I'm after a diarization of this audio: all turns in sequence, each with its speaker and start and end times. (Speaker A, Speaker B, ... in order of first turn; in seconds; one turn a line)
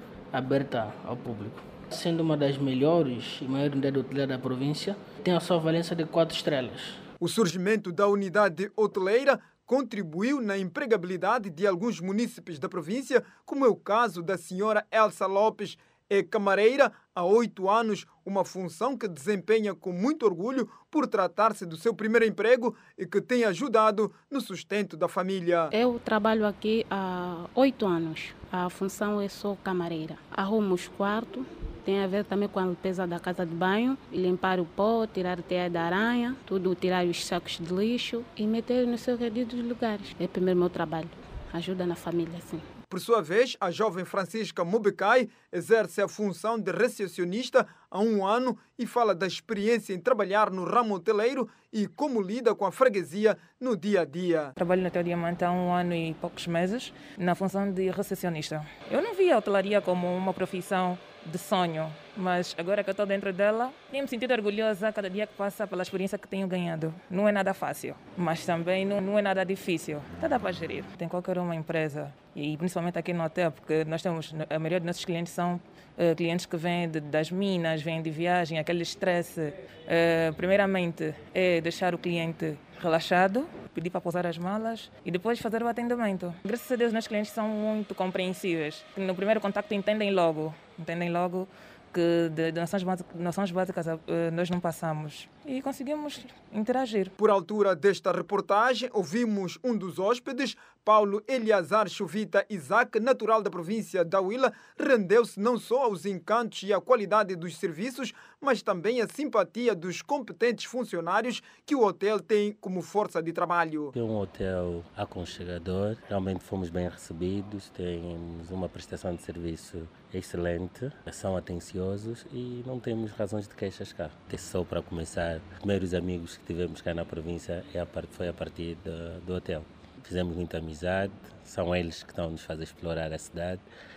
Speaker A: 0.3-7.0
Speaker B: 7.2-25.7
Speaker C: 25.7-42.7
Speaker B: 42.9-54.5
Speaker D: 54.6-97.1
Speaker B: 97.2-113.9
Speaker E: 114.0-133.6